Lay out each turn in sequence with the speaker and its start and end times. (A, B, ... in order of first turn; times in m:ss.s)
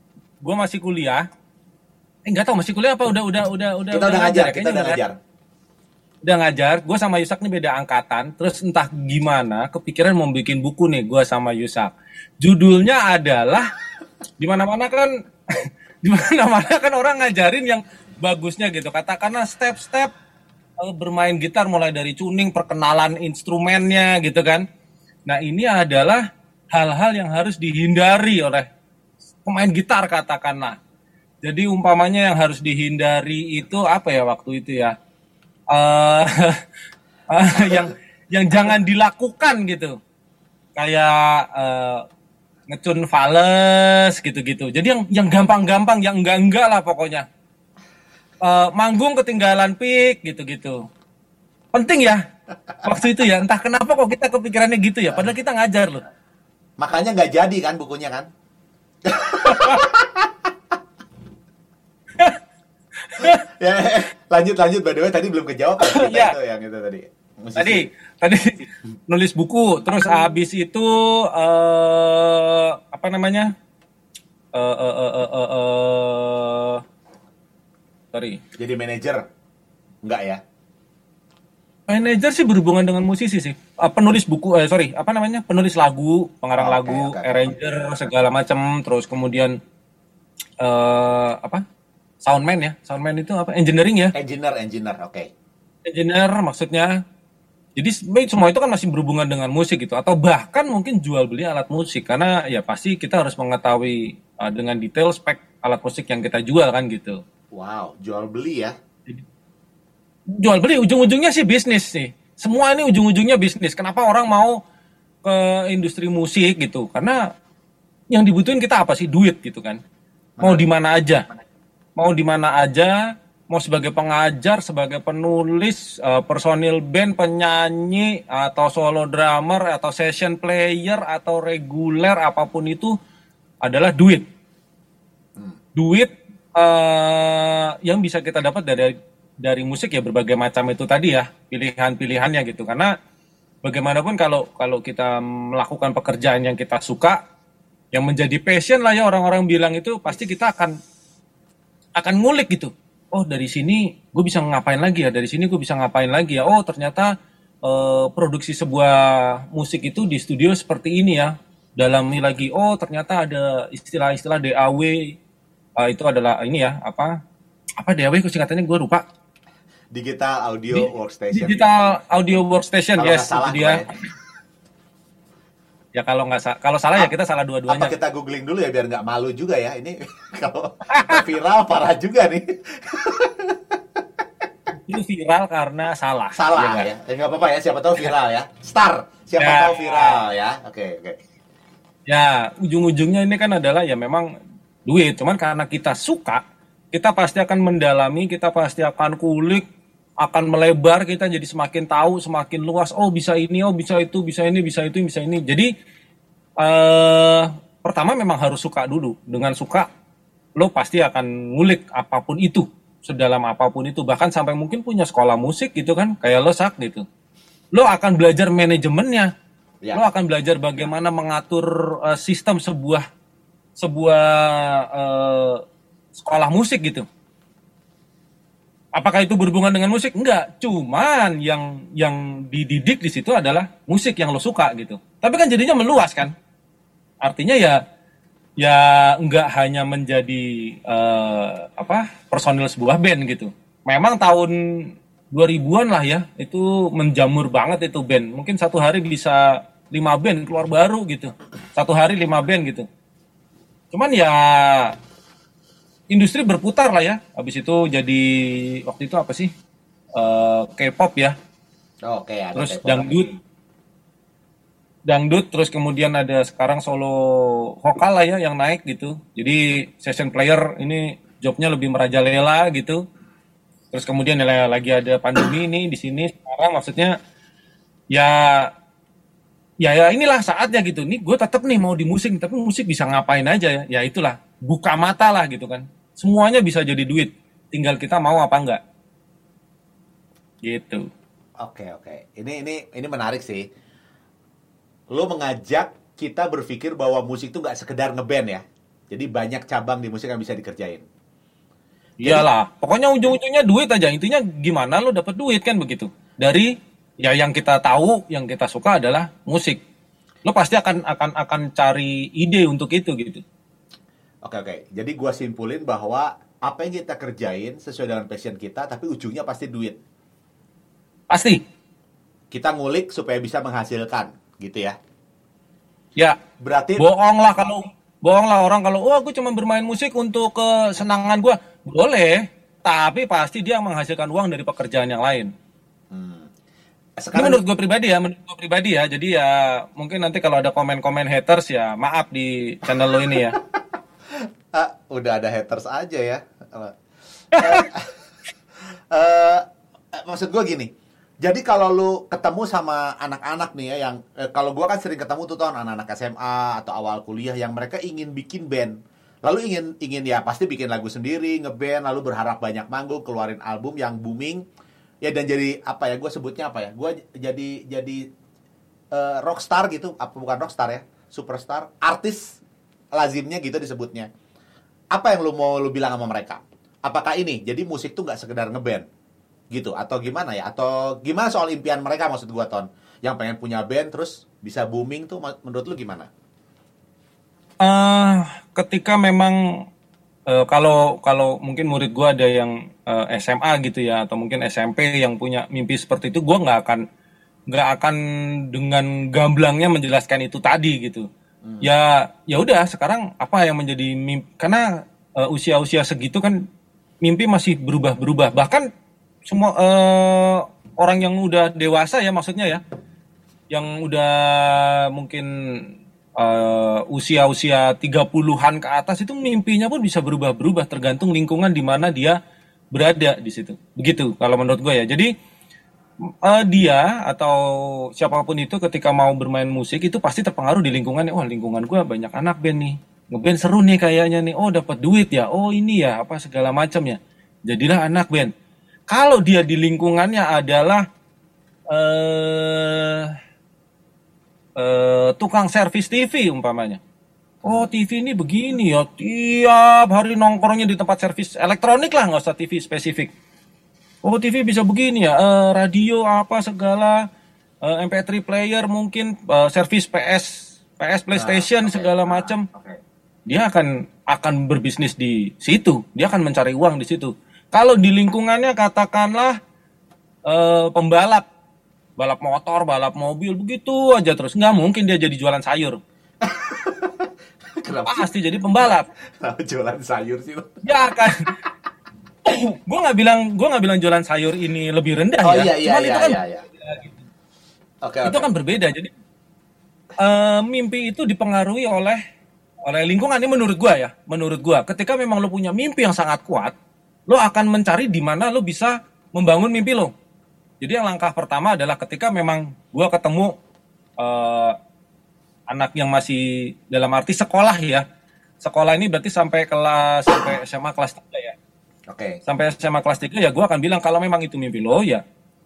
0:00.4-0:01.2 A
0:02.2-0:05.0 A
0:03.9-0:05.1 B
0:06.2-0:13.7 A
0:14.4-0:20.1 A
0:20.8-0:24.6 A
0:25.3-0:28.7 A
0:29.4-0:30.8 A
0:31.4-0:35.0 A
0:35.7-0:36.6 A
0:37.3-0:40.0 A
0:40.8-0:42.0 A
0:42.7-0:47.2 A
0:48.4-0:50.8 A
0:51.7-0:52.2 A
0:52.8-0:56.0 A
0:56.8-0:58.3 B
0:59.0-1:00.5 B
0:59.4-0:59.8 A
1:03.0-1:03.5 A
1:03.5-1:07.9 B
1:05.8-1:06.4 A
1:07.6-1:13.5 A
1:14.5-1:16.8 A
1:18.1-1:18.4 A
1:18.6-1:19.2 B
1:20.0-1:20.4 B
1:21.9-1:29.6 A
1:26.6-1:27.6 B
1:30.6-1:31.6 A
1:32.2-1:34.1 A
1:34.1-1:35.3 B
1:35.9-1:37.0 A
1:37.8-1:47.2 A
1:47.5-1:48.7 B
1:50.4-1:54.6 A
1:55.2-1:57.2 A
1:58.1-1:59.8 A
2:00.4-2:00.7 B
2:00.4-2:01.2 A
2:02.0-2:13.0 A
2:13.6-2:14.2 A
2:15.8-2:22.9 A
2:23.6-2:27.2 A
2:27.9-2:30.8 A
2:32.0-2:37.1 A
2:37.6-2:45.2 A
2:45.8-2:47.2 A
2:47.8-2:49.0 A
2:49.9-2:52.0 B
2:50.7-2:53.8 A
2:53.0-2:53.9 B
2:56.0-2:57.9 A
2:57.7-3:04.2 B
3:00.9-3:01.2 A
3:04.7-3:06.9 A
3:06.4-3:11.2 B
3:09.4-3:10.2 A
3:12.1-3:14.3 A
3:14.9-3:19.6 A
3:20.2-3:25.7 A
3:26.6-3:29.9 A
3:30.6-3:37.0 A
3:37.7-3:39.3 A
3:39.9-3:43.0 A
3:43.8-3:45.6 A
3:46.1-3:47.1 A
3:49.0-3:56.3 A
3:57.2-3:57.8 A
3:58.6-4:12.9 A
4:13.9-4:15.0 A
4:16.1-4:19.5 A
4:20.2-4:21.4 A
4:22.1-4:23.3 B
4:22.6-4:23.3 A
4:25.1-4:33.0 A
4:33.9-4:37.2 A
4:38.1-4:38.7 A
4:39.8-4:48.8 A
4:50.6-4:51.1 A
4:51.6-4:53.7 B
4:55.1-5:01.0 B
5:02.2-5:09.8 A
5:10.4-5:13.4 A
5:14.4-5:20.0 B
5:21.3-5:21.6 A
5:22.5-5:25.0 B
5:26.6-5:27.1 B
5:27.0-5:35.5 A
5:36.1-5:36.5 B
5:37.2-5:37.6 B
5:37.4-5:43.6 A
5:42.9-5:43.6 B
5:44.3-5:47.0 B
5:47.5-5:48.1 B
5:47.6-5:47.8 A
5:49.1-5:50.9 B
5:51.4-6:04.6 B
6:05.2-6:08.2 B
6:09.1-6:12.6 B
6:13.1-6:14.3 B
6:15.1-6:19.0 B
6:19.7-6:26.3 B
6:27.8-6:29.8 A
6:30.5-6:37.0 A
6:37.7-6:38.2 A
6:38.7-6:41.3 A
6:41.6-6:41.9 B
6:41.8-6:44.9 A
6:45.4-6:46.6 A
6:47.2-6:48.9 A
6:49.5-6:52.8 A
6:53.7-7:02.4 A
7:02.9-7:05.3 A
7:06.4-7:18.5 A
7:19.1-7:21.0 A
7:21.9-7:23.3 A
7:24.8-7:27.0 A
7:27.6-7:27.9 B
7:27.6-7:33.3 A
7:34.2-7:37.2 A
7:37.8-7:42.6 A
7:41.3-7:43.0 B
7:43.5-7:49.6 A
7:50.5-7:51.4 A
7:52.2-7:56.0 A
7:56.4-7:58.3 B
7:58.1-7:59.1 A
7:59.4-8:00.8 B
8:00.8-8:01.5 A
8:02.4-8:07.2 A
8:05.4-8:06.6 B
8:08.0-8:08.5 B
8:08.2-8:09.1 A
8:10.2-8:12.2 A
8:12.9-8:16.8 A
8:17.3-8:20.1 A
8:20.8-8:23.6 A
8:24.2-8:24.8 A
8:25.7-8:28.0 A
8:28.6-8:31.6 A
8:32.1-8:32.4 B
8:32.5-8:35.2 A